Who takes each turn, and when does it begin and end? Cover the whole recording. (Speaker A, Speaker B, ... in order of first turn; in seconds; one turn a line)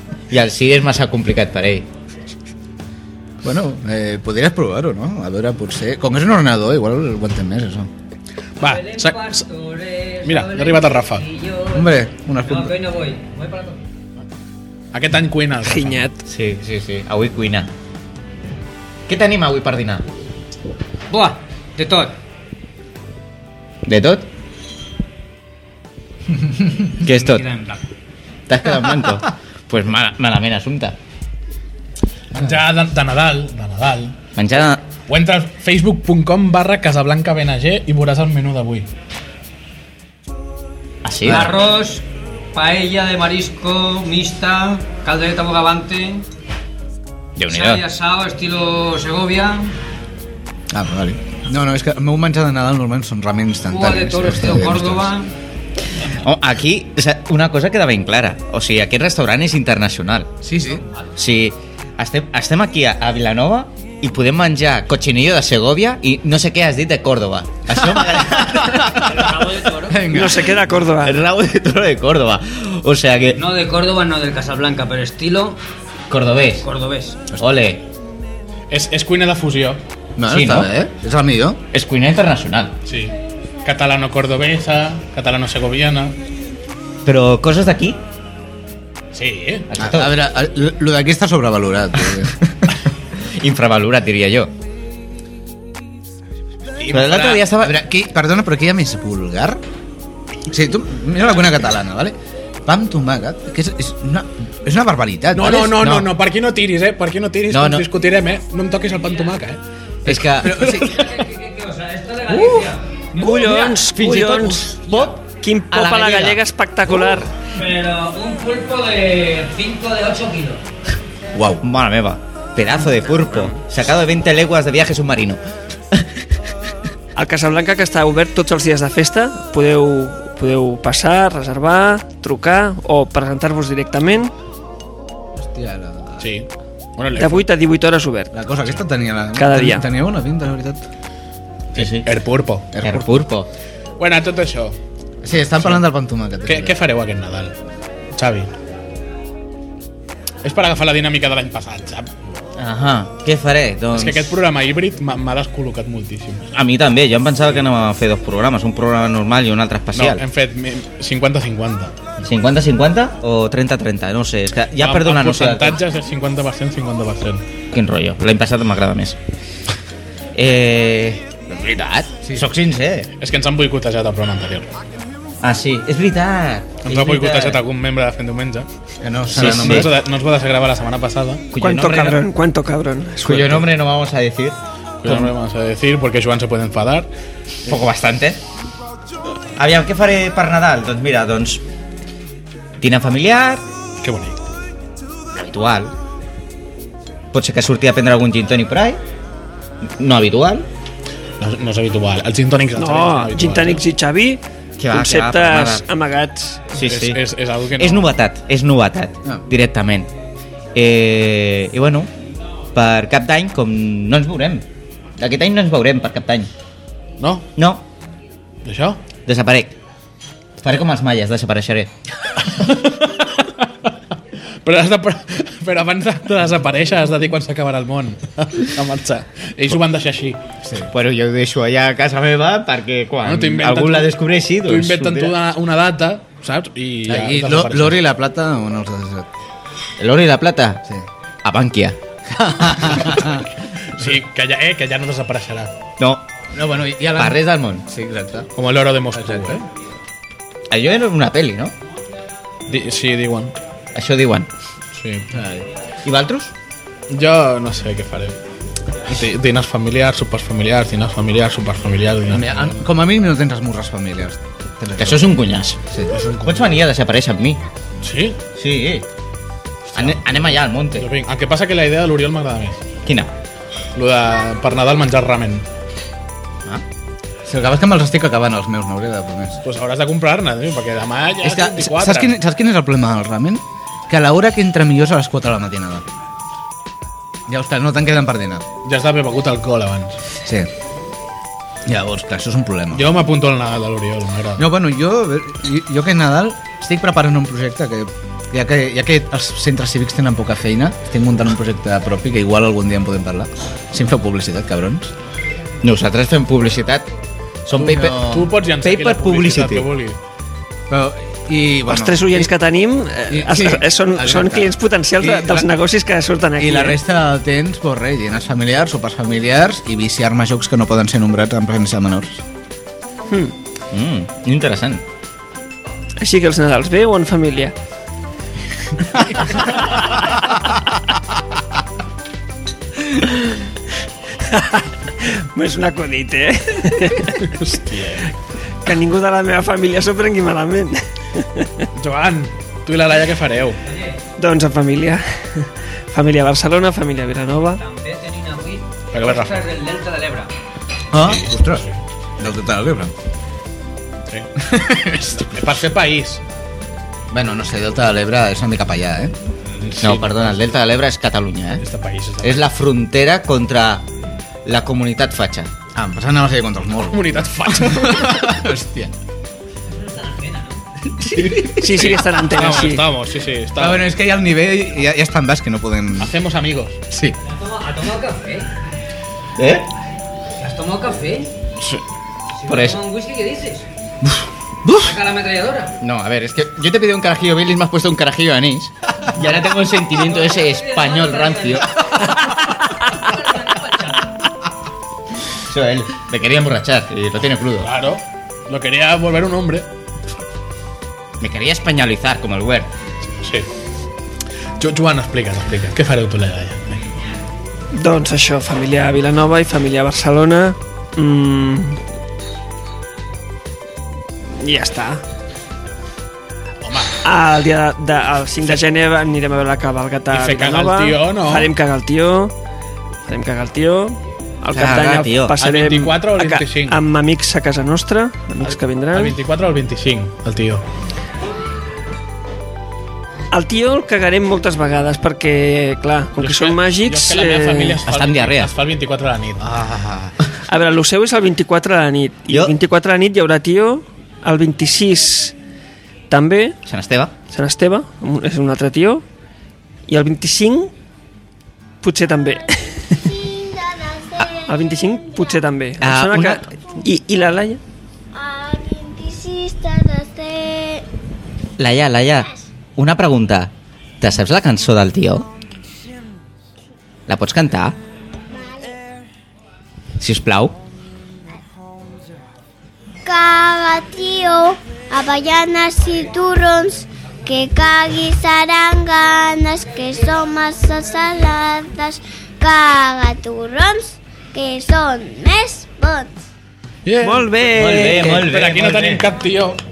Speaker A: 0.3-1.9
Speaker B: 3.4-7.9
Speaker C: 8.6-9.4
Speaker D: 8.6-11.9
Speaker C: 10.2-11.2
Speaker B: 11.7-12.7
Speaker D: 12.4-13.8
Speaker C: 14.9-16.1
Speaker E: 15.6-16.2
Speaker A: 16.3-17.7
Speaker A: 19.1-20.1
Speaker D: 21.1-22.1
Speaker A: 23.9-24.2
Speaker A: 27.0-27.5
Speaker D: 27.1-27.8
Speaker A: 28.5-30.9
Speaker C: 32.3-34.1
Speaker A: 34.4-34.8
Speaker C: 35.1-38.9
Speaker A: 41.0-41.5
Speaker D: 41.2-46.2
Speaker A: 47.4-47.8
Speaker D: 47.5-49.7
Speaker B: 50.7-55.1
Speaker D: 53.7-55.3
Speaker A: 56.2-60.3
Speaker B: 60.4-60.8
Speaker A: 61.1-69.2
Speaker B: 67.7-69.2
Speaker D: 68.9-70.0
Speaker B: 69.8-70.5
Speaker E: 70.1-71.2
Speaker A: 71.0-73.4
Speaker D: 73.3-75.6
Speaker A: 76.1-76.6
Speaker D: 76.6-77.2
Speaker A: 77.4-77.8
Speaker C: 78.7-79.8
Speaker B: 80.2-81.6
Speaker A: 80.3-80.7
Speaker A: 81.7-82.8
Speaker C: 82.9-86.2
Speaker A: 87.0-88.0
Speaker C: 89.1-89.7
Speaker A: 89.7-90.1
Speaker B: 89.8-92.3
Speaker A: 92.4-94.5
Speaker C: 96.8-97.4
Speaker A: 96.9-97.7
Speaker B: 97.5-99.6
Speaker B: 100.5-102.1
Speaker B: 102.7-106.1
Speaker C: 105.3-109.6
Speaker A: 107.5-107.9
Speaker A: 110.0-110.7
Speaker B: 110.1-111.2
Speaker C: 110.6-110.8
Speaker D: 110.9-113.9
Speaker B: 112.3-112.6
Speaker E: 113.1-117.3
Speaker A: 114.0-115.2
Speaker A: 115.7-116.4
Speaker D: 117.5-120.6
Speaker B: 121.3-121.6
Speaker A: 121.5-125.4
Speaker E: 127.2-134.3
Speaker B: 135.4-136.3
Speaker C: 136.2-137.5
Speaker E: 137.2-138.3
Speaker B: 138.3-140.8
Speaker E: 139.4-139.9
Speaker A: 141.7-142.1
Speaker C: 141.7-142.7
Speaker B: 142.7-143.2
Speaker A: 142.8-143.5
Speaker C: 144.0-144.8
Speaker B: 145.2-146.8
Speaker C: 146.4-147.6
Speaker C: 148.2-148.5
Speaker C: 150.4-152.1
Speaker A: 152.6-154.3
Speaker C: 153.9-156.4
Speaker A: 156.5-160.2
Speaker C: 159.9-161.9
Speaker A: 162.2-165.8
Speaker C: 164.8-167.4
Speaker A: 167.7-169.2
Speaker A: 170.3-173.1
Speaker B: 172.2-172.5
Speaker C: 173.2-174.7
Speaker A: 175.4-177.6
Speaker C: 176.8-178.7
Speaker B: 179.0-179.9
Speaker C: 179.3-181.4
Speaker A: 179.3-179.9
Speaker A: 181.5-182.2
Speaker E: 181.6-183.7
Speaker A: 183.2-185.3
Speaker C: 185.0-187.1
Speaker A: 187.7-188.4
Speaker A: 189.6-191.6
Speaker A: 192.8-193.6
Speaker C: 194.0-194.4
Speaker A: 195.3-195.9
Speaker A: 197.3-199.0
Speaker A: 200.0-200.6
Speaker C: 201.4-203.8
Speaker E: 202.8-206.6
Speaker A: 204.8-205.8
Speaker C: 206.7-208.1
Speaker A: 206.7-207.2
Speaker A: 207.8-210.1
Speaker A: 210.7-212.1
Speaker A: 212.7-214.6
Speaker A: 215.2-216.5
Speaker C: 217.2-217.4
Speaker A: 217.6-217.8
Speaker C: 218.6-219.0
Speaker A: 219.3-219.8
Speaker A: 220.6-221.9
Speaker C: 222.4-223.9
Speaker C: 224.6-230.4
Speaker B: 230.6-230.9
Speaker A: 230.9-235.4
Speaker C: 233.2-238.0
Speaker B: 237.1-239.3
Speaker A: 240.0-240.8
Speaker A: 241.4-242.0
Speaker B: 242.3-243.4
Speaker C: 243.8-245.7
Speaker A: 246.0-246.2
Speaker B: 246.5-248.5
Speaker A: 247.2-247.8
Speaker C: 248.6-249.6
Speaker B: 249.2-249.6
Speaker A: 250.7-251.7
Speaker C: 252.7-253.5
Speaker A: 253.9-254.5
Speaker C: 254.9-255.3
Speaker B: 255.3-255.7
Speaker A: 256.1-256.5
Speaker C: 257.1-258.4
Speaker C: 259.1-262.8
Speaker B: 262.3-265.3
Speaker A: 265.0-265.8
Speaker C: 266.1-266.7
Speaker A: 266.4-267.6
Speaker C: 268.0-268.4
Speaker A: 268.6-269.1
Speaker C: 269.9-270.2
Speaker A: 269.9-271.1
Speaker C: 270.9-272.8
Speaker A: 273.1-273.3
Speaker C: 273.9-275.6
Speaker B: 277.4-279.6
Speaker C: 279.6-282.3
Speaker B: 281.4-286.1
Speaker B: 287.5-288.7
Speaker C: 288.8-290.2
Speaker B: 290.4-290.7
Speaker B: 291.9-293.1
Speaker C: 292.9-294.6
Speaker B: 294.6-305.1
Speaker A: 305.8-307.1
Speaker A: 307.6-308.2
Speaker B: 307.7-308.5
Speaker C: 308.1-310.2
Speaker A: 308.8-309.9
Speaker B: 310.9-312.5
Speaker E: 311.9-317.0
Speaker B: 313.3-315.7
Speaker B: 316.6-322.4
Speaker E: 323.3-323.5
Speaker A: 323.9-325.0
Speaker E: 326.2-327.7
Speaker E: 334.4-337.5
Speaker C: 337.4-338.3
Speaker E: 338.8-341.9
Speaker C: 341.9-343.8
Speaker D: 343.9-344.1
Speaker E: 344.4-347.8
Speaker D: 347.7-350.5
Speaker C: 349.1-349.6
Speaker B: 351.1-351.9
Speaker B: 352.4-353.1
Speaker B: 354.6-355.5
Speaker C: 355.3-356.4
Speaker B: 357.3-359.3
Speaker C: 359.8-360.6
Speaker A: 360.0-361.8
Speaker C: 361.8-362.7
Speaker A: 362.4-364.1
Speaker A: 364.6-365.7
Speaker B: 365.9-369.1
Speaker C: 367.1-368.5
Speaker E: 371.7-373.1
Speaker C: 371.9-374.1
Speaker B: 373.8-376.3
Speaker C: 376.2-377.0
Speaker B: 377.1-377.4
Speaker D: 377.5-378.7
Speaker A: 379.6-379.9
Speaker D: 380.6-381.5
Speaker D: 382.6-383.9
Speaker A: 382.7-383.0
Speaker B: 384.2-385.1
Speaker D: 385.0-385.9
Speaker A: 386.0-392.0
Speaker D: 390.1-394.3
Speaker A: 395.6-397.9
Speaker C: 397.8-399.9
Speaker A: 401.4-402.9
Speaker C: 403.4-403.7
Speaker C: 404.8-407.1
Speaker E: 407.9-412.0
Speaker E: 414.6-415.2
Speaker C: 416.8-417.2
Speaker E: 417.2-422.6
Speaker C: 420.3-421.7
Speaker E: 423.2-429.4
Speaker A: 424.7-425.6
Speaker C: 425.6-427.0
Speaker C: 428.6-430.8
Speaker E: 433.5-438.0
Speaker C: 436.4-439.6
Speaker A: 438.1-438.7
Speaker A: 439.6-440.3
Speaker E: 440.7-445.6
Speaker E: 446.3-446.8
Speaker A: 446.9-447.3
Speaker E: 447.5-449.2
Speaker E: 450.1-450.9
Speaker E: 452.0-453.2
Speaker F: 453.0-455.6
Speaker E: 454.6-457.8
Speaker A: 456.0-456.7
Speaker F: 458.3-461.0
Speaker A: 461.8-465.4
Speaker A: 467.3-467.9
Speaker F: 468.5-468.9
Speaker A: 470.2-470.8
Speaker F: 473.2-486.3
Speaker C: 487.1-489.8
Speaker E: 487.2-488.5
Speaker A: 487.7-489.3